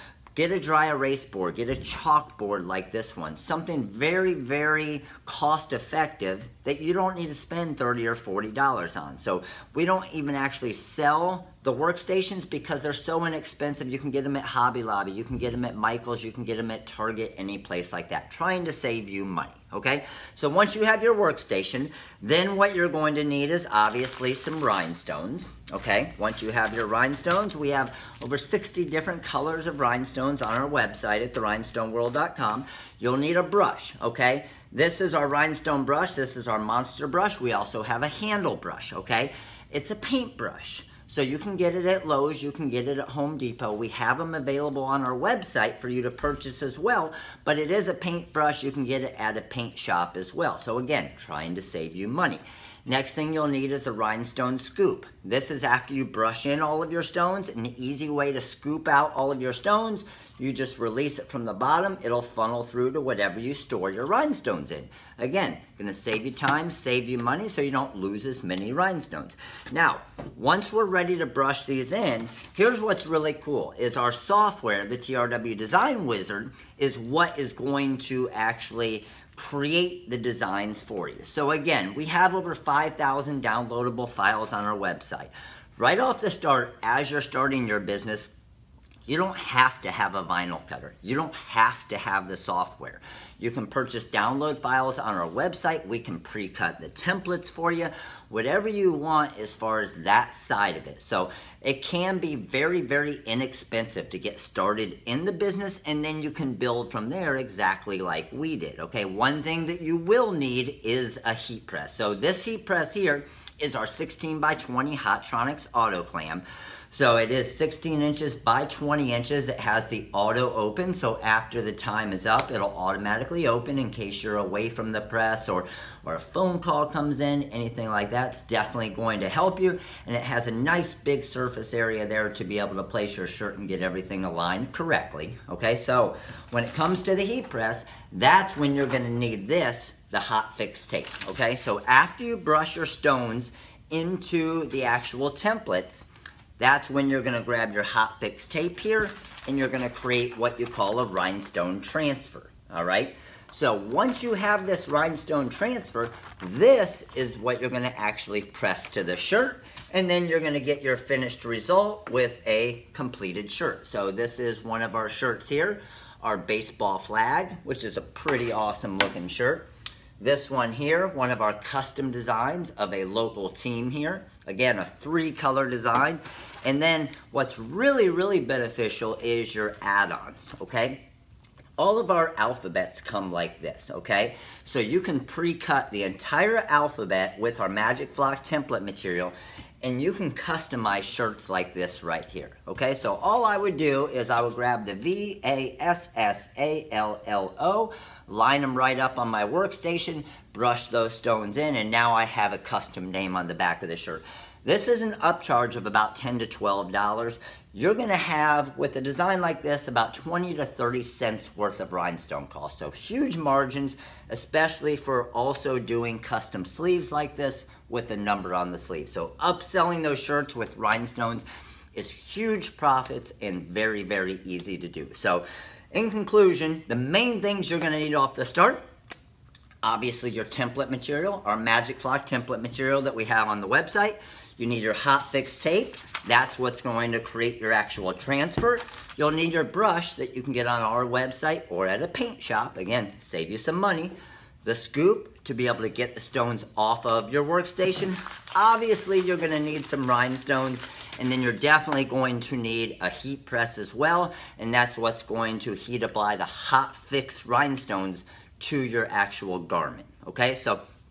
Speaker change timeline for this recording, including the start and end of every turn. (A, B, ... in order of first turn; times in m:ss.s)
0:00.4-1:28.3 A
1:29.1-2:26.1 A
2:26.6-2:49.7 A
2:50.2-3:01.0 A
3:01.8-3:48.8 A
3:49.8-4:20.8 A